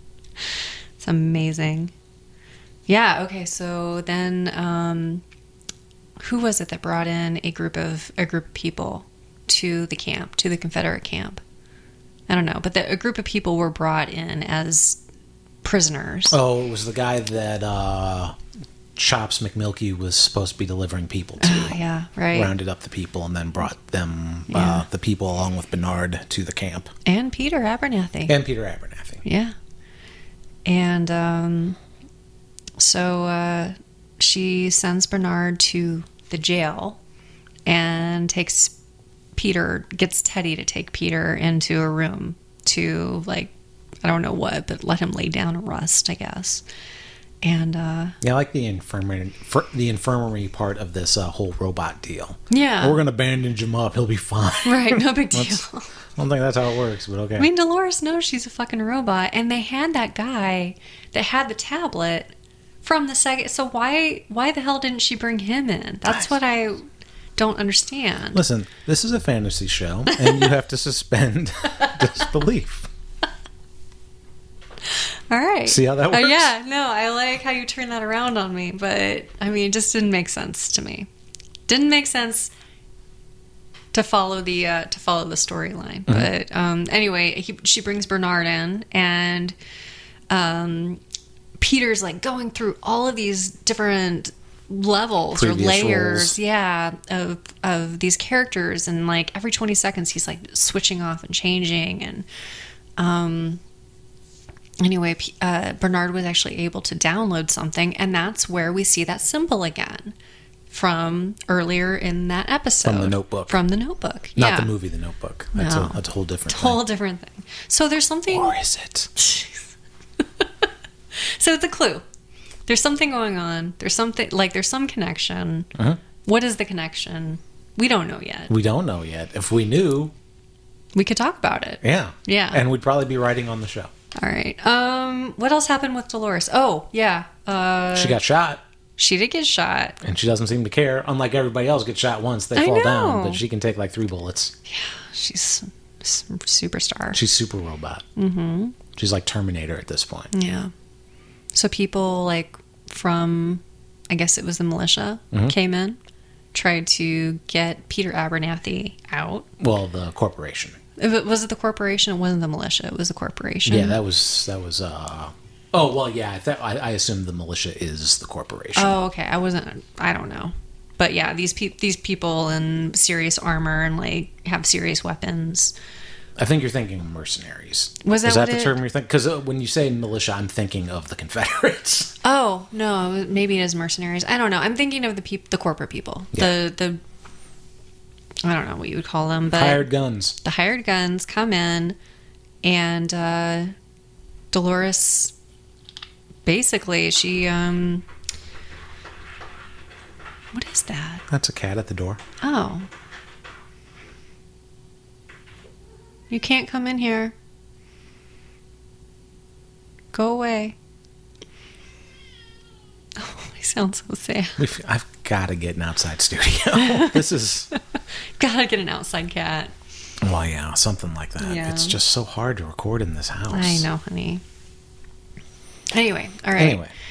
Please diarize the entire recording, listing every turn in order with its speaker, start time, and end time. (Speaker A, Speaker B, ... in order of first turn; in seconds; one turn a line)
Speaker A: 1.0-1.9
Speaker A: 2.9-5.2
Speaker A: 6.2-11.4
Speaker A: 12.3-15.0
Speaker A: 15.6-16.4
Speaker B: 16.3-18.4
Speaker B: 19.0-21.8
Speaker A: 21.4-22.5
Speaker B: 22.3-26.9
Speaker A: 24.5-24.9
Speaker A: 27.1-28.4
Speaker B: 28.3-29.2
Speaker A: 29.2-29.6
Speaker A: 30.6-31.8
Speaker A: 32.8-37.0
Speaker A: 37.7-38.8
Speaker A: 39.4-43.5
Speaker A: 44.0-46.6
Speaker A: 47.4-48.2
Speaker B: 48.2-55.6
Speaker A: 52.5-53.0
Speaker A: 54.6-55.9
Speaker B: 56.2-57.5
Speaker A: 57.4-66.8
Speaker A: 67.4-68.4
Speaker B: 68.3-72.9
Speaker A: 70.1-70.5
Speaker A: 74.9-81.1
Speaker B: 75.7-76.5
Speaker A: 81.7-82.5
Speaker A: 83.9-89.5
Speaker A: 90.3-91.0
Speaker A: 91.6-102.3
Speaker B: 95.3-96.4
Speaker A: 103.0-103.6
Speaker A: 104.8-110.2
Speaker A: 110.7-114.7
Speaker B: 112.8-113.6
Speaker B: 114.4-116.8
Speaker A: 115.5-118.5
Speaker B: 118.3-119.1
Speaker A: 119.2-122.0
Speaker A: 122.7-125.7
Speaker B: 125.8-126.0
Speaker A: 126.2-128.5
Speaker B: 128.5-130.1
Speaker A: 130.9-132.6
Speaker B: 131.8-133.9
Speaker A: 134.2-138.2
Speaker B: 137.9-138.6
Speaker A: 139.0-140.0
Speaker B: 140.0-144.5
Speaker A: 142.6-143.4
Speaker A: 144.7-147.2
Speaker B: 147.1-148.1
Speaker A: 148.2-148.8
Speaker B: 148.9-150.3
Speaker A: 150.3-150.7
Speaker A: 151.5-156.0
Speaker A: 156.5-159.5
Speaker B: 159.6-160.8
Speaker A: 161.0-164.0
Speaker B: 163.7-169.0
Speaker A: 168.8-175.8
Speaker B: 176.4-182.2
Speaker A: 178.0-178.8
Speaker A: 182.2-187.0
Speaker A: 188.4-189.9
Speaker B: 189.5-190.4
Speaker A: 190.4-192.0
Speaker A: 192.6-193.7
Speaker A: 194.5-195.3
Speaker A: 196.4-198.1
Speaker A: 200.5-201.2
Speaker B: 201.3-202.2
Speaker A: 202.4-202.9
Speaker A: 206.3-207.3
Speaker A: 210.1-210.8
Speaker A: 213.2-214.6
Speaker B: 214.6-217.7
Speaker A: 216.7-217.8
Speaker A: 218.4-219.7
Speaker B: 220.2-223.9
Speaker A: 221.4-222.0
Speaker A: 223.5-224.4
Speaker A: 225.9-226.8
Speaker B: 226.6-226.9